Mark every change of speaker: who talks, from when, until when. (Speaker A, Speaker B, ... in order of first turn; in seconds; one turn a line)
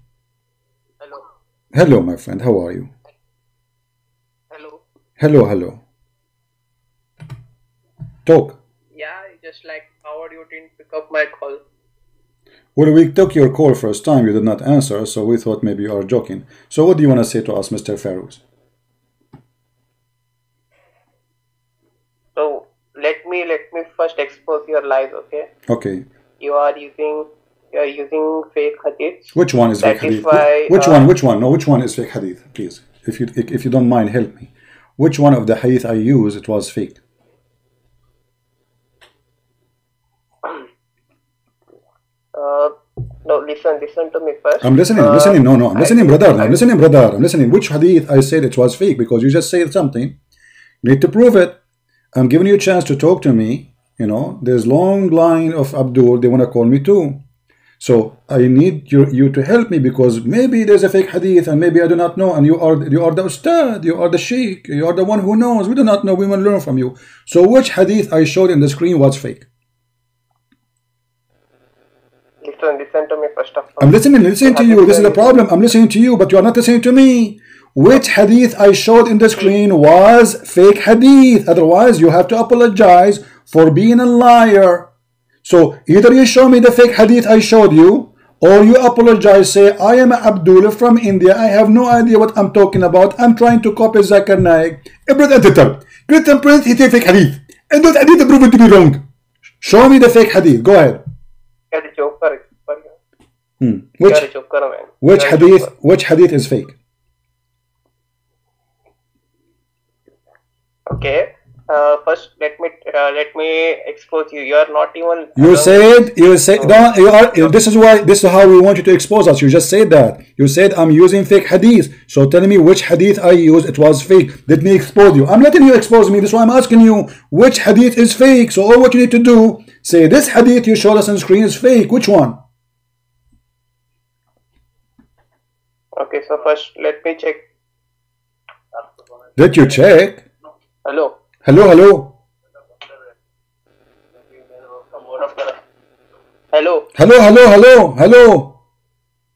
Speaker A: 1.0-1.3
Speaker B: 1.7-2.9
Speaker A: 4.5-4.8
Speaker B: 5.2-5.8
Speaker B: 8.3-8.6
Speaker A: 8.9-11.6
Speaker B: 12.8-18.4
Speaker A: 22.4-25.5
Speaker B: 25.7-26.1
Speaker A: 26.4-31.1
Speaker B: 29.3-37.0
Speaker A: 42.4-42.7
Speaker A: 43.2-46.6
Speaker B: 44.6-50.2
Speaker B: 50.8-51.6
Speaker B: 52.1-57.2
Speaker B: 57.8-69.5
Speaker A: 72.4-75.5
Speaker B: 73.8-84.9
Speaker B: 85.4-99.0
Speaker B: 99.6-101.0
Speaker A: 101.7-103.0
Speaker B: 103.6-104.3
Speaker A: 104.1-105.7
Speaker B: 105.0-106.8
Speaker A: 110.9-116.9
Speaker B: 115.4-132.4
Speaker A: 136.0-137.4
Speaker B: 139.4-140.2
Speaker A: 140.8-141.2
Speaker B: 141.4-142.2
Speaker A: 144.9-145.6
Speaker A: 146.5-146.9
Speaker B: 147.0-148.6